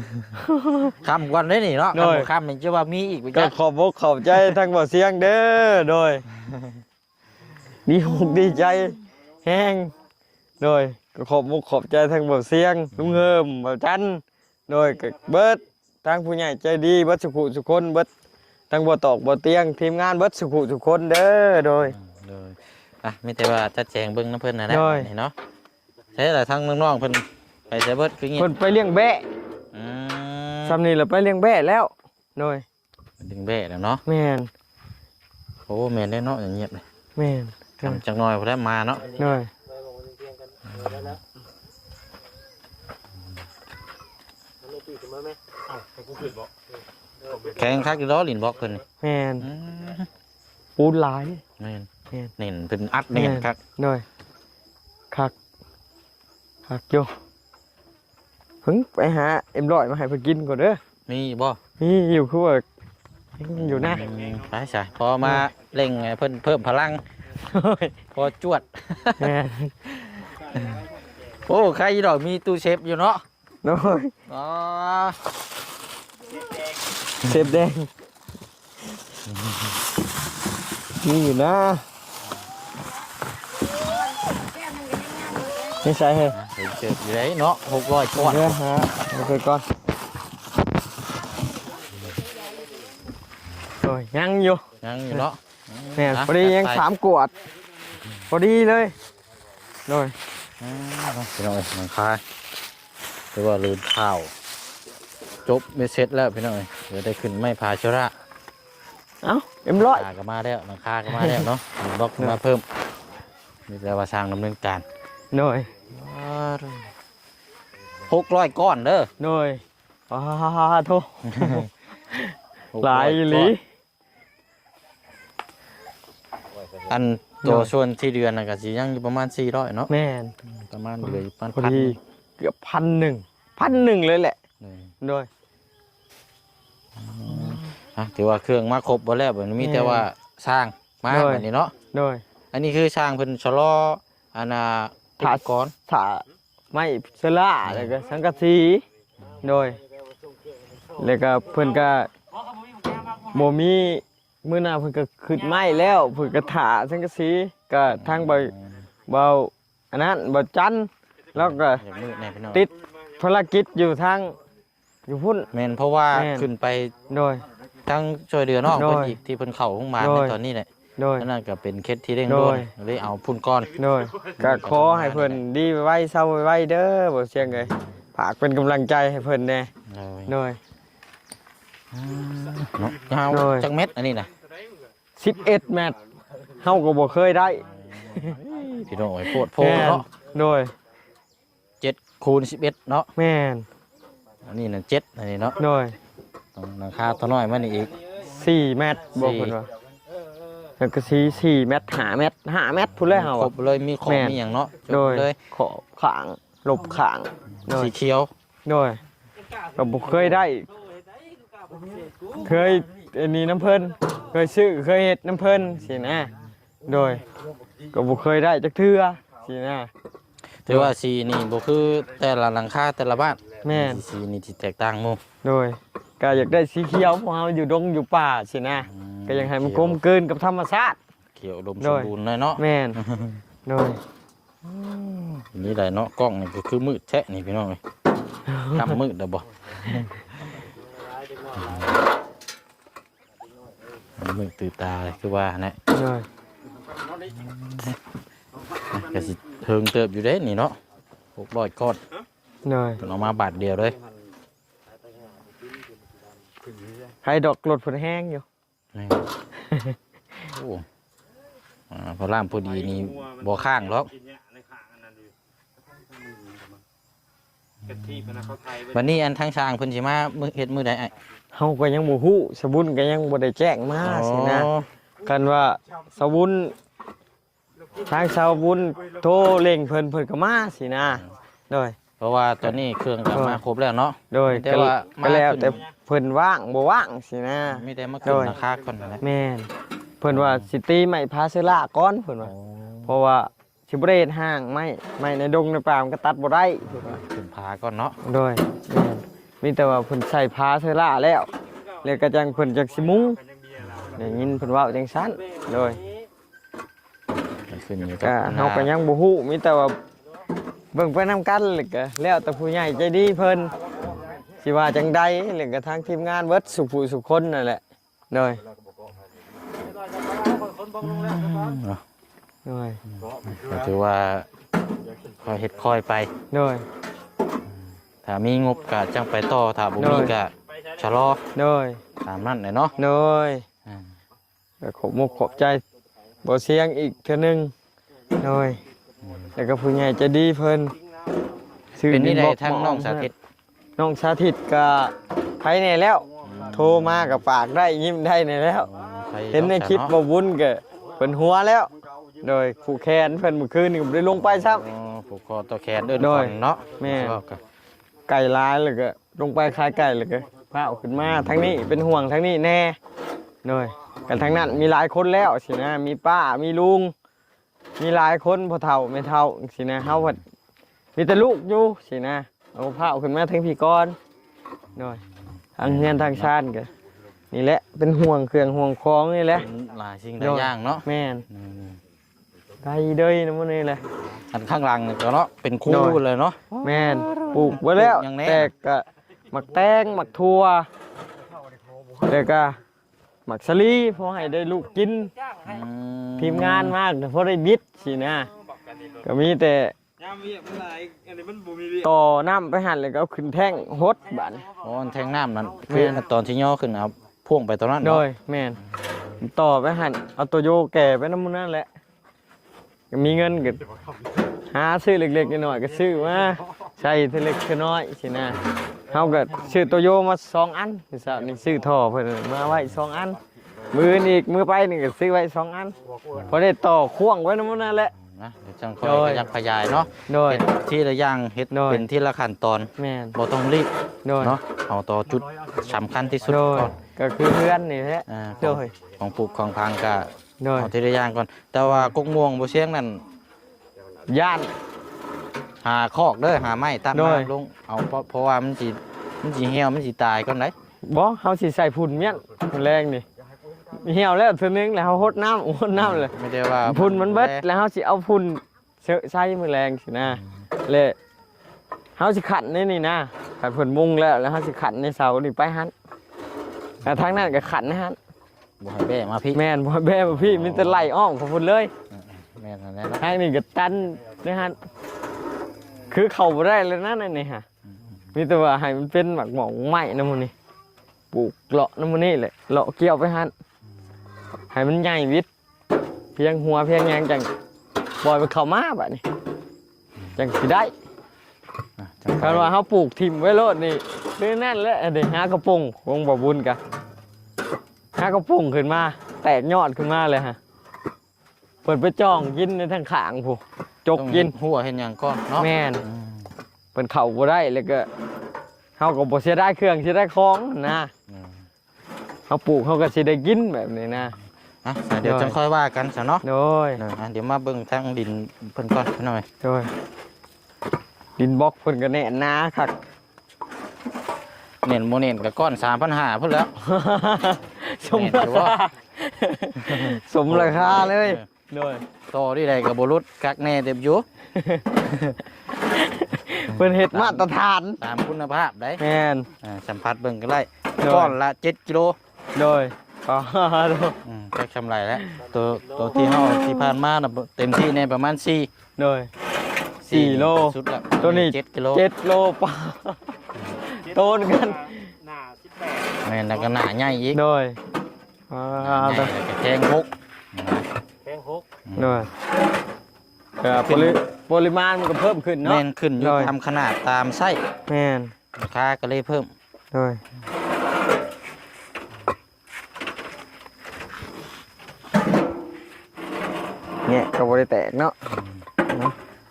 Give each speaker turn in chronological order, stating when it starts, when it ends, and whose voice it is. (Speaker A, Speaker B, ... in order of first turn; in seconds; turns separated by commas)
Speaker A: 0.3-1.0, Speaker B: 1.0-3.5, Speaker A: 1.9-2.3, Speaker A: 3.3-6.2, Speaker A: 7.8-9.9, Speaker A: 10.6-18.1, Speaker A: 18.7-21.9, Speaker B: 21.9-25.3, Speaker A: 24.7-25.1, Speaker B: 26.1-28.5, Speaker A: 28.4-29.3, Speaker B: 29.7-30.8, Speaker A: 30.6-32.6, Speaker B: 33.2-34.0, Speaker A: 34.0-34.5, Speaker B: 35.7-36.8, Speaker A: 37.1-38.0, Speaker B: 37.8-39.1, Speaker A: 39.1-39.5, Speaker B: 40.8-41.2, Speaker B: 47.4-48.8, Speaker A: 49.0-49.5, Speaker B: 49.4-50.1, Speaker A: 50.8-51.4, Speaker B: 51.6-53.6, Speaker A: 53.1-54.0, Speaker A: 56.7-57.1, Speaker A: 58.6-60.8, Speaker B: 61.1-61.6, Speaker A: 61.8-62.6, Speaker A: 63.4-64.1, Speaker B: 63.5-67.0, Speaker A: 67.4-68.0, Speaker B: 68.1-69.3, Speaker A: 69.2-69.7, Speaker B: 69.8-70.8, Speaker B: 71.5-73.2, Speaker A: 73.6-74.1, Speaker B: 74.3-75.2, Speaker A: 77.2-77.9, Speaker B: 79.3-79.6, Speaker A: 81.0-81.8, Speaker A: 85.6-86.4, Speaker B: 86.3-88.6, Speaker A: 88.2-89.6, Speaker A: 93.8-94.6, Speaker B: 94.8-96.8, Speaker A: 96.0-97.3, Speaker A: 98.3-98.9, Speaker A: 99.9-100.2, Speaker B: 100.6-102.2, Speaker B: 103.3-104.3, Speaker B: 105.4-108.1, Speaker A: 109.2-110.0, Speaker B: 109.9-112.6, Speaker A: 111.1-111.5, Speaker B: 113.7-114.8, Speaker A: 115.3-115.7, Speaker B: 115.9-116.9, Speaker B: 118.1-119.1, Speaker A: 119.2-123.6, Speaker B: 121.3-121.7, Speaker B: 122.7-123.5, Speaker B: 126.9-129.9, Speaker A: 127.4-127.7, Speaker A: 129.9-130.3, Speaker B: 130.5-132.0, Speaker A: 131.5-134.4, Speaker B: 134.6-134.9, Speaker A: 135.0-135.3, Speaker B: 136.9-141.7, Speaker A: 137.3-137.6, Speaker A: 139.6-140.1, Speaker A: 141.1-142.2, Speaker B: 142.5-145.7, Speaker A: 145.2-148.8, Speaker B: 147.6-147.9, Speaker A: 149.4-149.8, Speaker A: 151.0-152.1, Speaker A: 153.1-158.5, Speaker B: 157.9-158.8, Speaker A: 159.1-161.8, Speaker B: 161.3-162.7, Speaker A: 162.5-164.3, Speaker A: 165.1-165.5, Speaker B: 165.5-166.9, Speaker A: 166.1-166.5, Speaker A: 167.1-167.4, Speaker B: 167.8-173.7, Speaker A: 168.7-169.2, Speaker A: 170.0-170.3, Speaker A: 171.0-171.3, Speaker A: 172.3-172.7, Speaker A: 173.8-179.7, Speaker B: 174.4-175.4, Speaker B: 179.9-180.3, Speaker A: 180.3-180.6, Speaker B: 181.9-184.3, Speaker A: 183.3-183.7, Speaker A: 185.2-186.0, Speaker A: 186.6-190.7, Speaker B: 187.9-188.3, Speaker B: 188.8-190.0, Speaker B: 191.8-193.1, Speaker A: 193.2-193.7, Speaker B: 194.4-195.6, Speaker A: 195.6-195.9, Speaker B: 196.5-197.9, Speaker A: 198.2-199.7, Speaker B: 199.2-199.5, Speaker A: 200.8-203.5, Speaker B: 203.1-205.4, Speaker A: 204.1-207.9, Speaker B: 207.7-208.3, Speaker A: 208.7-209.0, Speaker A: 209.8-210.7, Speaker A: 212.3-216.3, Speaker A: 216.8-217.2, Speaker A: 217.9-219.9, Speaker B: 220.6-225.2, Speaker A: 223.6-224.0, Speaker A: 225.4-231.0, Speaker B: 228.8-230.0, Speaker B: 231.3-233.4, Speaker A: 231.8-233.0, Speaker A: 233.7-234.0, Speaker B: 234.6-237.8, Speaker A: 238.5-239.0, Speaker B: 238.7-240.1, Speaker B: 241.5-241.9, Speaker B: 244.2-245.8, Speaker A: 245.9-246.2, Speaker B: 247.2-248.0, Speaker B: 248.9-250.8, Speaker B: 251.3-252.0, Speaker A: 252.6-253.0, Speaker B: 253.0-253.9, Speaker A: 257.2-258.4, Speaker B: 258.9-259.3, Speaker A: 259.5-260.0, Speaker B: 260.4-260.9, Speaker B: 261.9-264.1, Speaker B: 267.9-271.1, Speaker A: 271.5-274.7, Speaker B: 274.0-274.9, Speaker A: 275.2-276.8, Speaker A: 278.0-282.0, Speaker B: 282.2-285.8, Speaker A: 283.3-283.6, Speaker A: 284.3-288.5, Speaker B: 287.7-289.2, Speaker A: 289.2-289.7, Speaker A: 290.2-292.5, Speaker B: 290.3-290.7, Speaker B: 292.4-293.1, Speaker A: 293.1-297.1, Speaker B: 296.9-298.2, Speaker A: 298.2-301.5, Speaker A: 302.0-303.4, Speaker B: 303.8-304.2, Speaker A: 304.1-306.0, Speaker B: 307.3-308.9, Speaker A: 308.2-310.0, Speaker A: 310.9-313.7, Speaker A: 314.6-318.6, Speaker C: 320.4-320.9, Speaker B: 321.0-322.0, Speaker A: 322.6-323.0, Speaker B: 323.2-324.5, Speaker B: 325.4-326.3, Speaker A: 326.5-326.8, Speaker B: 328.2-331.4, Speaker A: 330.0-330.3, Speaker A: 331.5-332.0, Speaker B: 332.2-332.9, Speaker A: 332.9-333.6, Speaker A: 334.8-335.8, Speaker A: 336.4-337.7, Speaker A: 338.4-338.8, Speaker A: 339.5-340.9, Speaker A: 341.9-343.3, Speaker B: 342.1-343.3, Speaker A: 344.0-348.9, Speaker B: 346.4-347.4, Speaker B: 348.8-350.1, Speaker A: 349.5-354.9, Speaker B: 354.3-357.6, Speaker A: 356.2-357.4, Speaker A: 358.3-363.0, Speaker A: 363.6-367.1, Speaker B: 364.3-364.8, Speaker A: 368.0-370.4, Speaker B: 370.1-370.4, Speaker A: 371.1-374.2, Speaker A: 374.9-375.2, Speaker A: 375.8-376.9, Speaker B: 375.8-376.5, Speaker A: 377.5-379.7, Speaker B: 379.5-382.0, Speaker A: 380.4-381.5, Speaker A: 382.8-384.0, Speaker B: 384.5-388.7, Speaker A: 385.9-386.2, Speaker A: 386.8-390.9, Speaker A: 392.2-392.8, Speaker A: 393.4-395.3, Speaker B: 395.6-396.9, Speaker A: 396.4-398.5, Speaker A: 399.2-399.9, Speaker A: 401.7-404.7, Speaker B: 404.8-408.2, Speaker A: 405.9-406.2, Speaker A: 408.0-408.8, Speaker A: 409.4-411.9, Speaker A: 413.1-413.8, Speaker A: 414.7-423.4, Speaker A: 423.9-428.1, Speaker B: 428.2-436.9, Speaker A: 429.0-429.4, Speaker A: 430.3-430.6, Speaker A: 431.7-432.1, Speaker A: 433.0-433.4, Speaker A: 434.2-434.6, Speaker A: 436.4-438.9, Speaker B: 438.3-443.2, Speaker A: 440.6-440.9, Speaker A: 444.3-444.7, Speaker B: 445.8-450.7, Speaker A: 447.1-447.5, Speaker A: 451.1-453.2, Speaker A: 453.9-461.1, Speaker B: 455.9-457.6, Speaker A: 462.2-465.9, Speaker A: 467.0-468.2, Speaker B: 468.8-469.6, Speaker A: 469.5-471.9, Speaker B: 470.3-471.1, Speaker B: 472.1-473.2, Speaker A: 473.2-474.8, Speaker A: 476.1-477.6, Speaker A: 478.3-480.5, Speaker A: 481.3-483.5, Speaker A: 484.7-485.5, Speaker A: 486.4-487.5, Speaker A: 488.2-489.2, Speaker A: 490.4-490.9, Speaker B: 492.0-492.7, Speaker A: 492.4-496.8, Speaker A: 498.1-500.6, Speaker A: 501.8-504.5, Speaker B: 504.1-506.5, Speaker A: 505.6-506.0, Speaker A: 506.9-508.1, Speaker A: 509.0-511.1, Speaker B: 511.3-511.6, Speaker A: 512.5-514.3, Speaker B: 514.8-516.4, Speaker A: 515.2-515.6, Speaker A: 516.4-517.0, Speaker B: 517.0-519.5, Speaker A: 519.6-519.9, Speaker A: 521.4-523.0, Speaker B: 524.8-526.7, Speaker A: 526.8-532.0, Speaker B: 528.0-528.8, Speaker B: 529.8-531.5, Speaker B: 532.3-534.2, Speaker A: 534.5-538.0, Speaker B: 536.7-537.5, Speaker B: 538.0-539.0, Speaker A: 539.0-539.5, Speaker B: 539.6-542.2, Speaker A: 541.0-541.4, Speaker A: 542.5-544.2, Speaker B: 544.2-548.7, Speaker A: 546.1-546.9, Speaker A: 549.0-549.3, Speaker A: 550.0-555.1, Speaker B: 550.1-552.0, Speaker C: 554.1-556.2, Speaker B: 556.2-557.4, Speaker A: 557.3-557.8, Speaker A: 558.5-559.3, Speaker B: 558.8-560.9, Speaker C: 561.2-561.6, Speaker B: 561.9-562.3, Speaker A: 562.0-562.3, Speaker A: 563.6-566.5, Speaker B: 563.7-564.2, Speaker B: 565.6-567.6, Speaker A: 567.9-568.3, Speaker B: 568.5-569.5, Speaker A: 569.9-570.2, Speaker A: 577.0-578.1, Speaker A: 578.9-579.1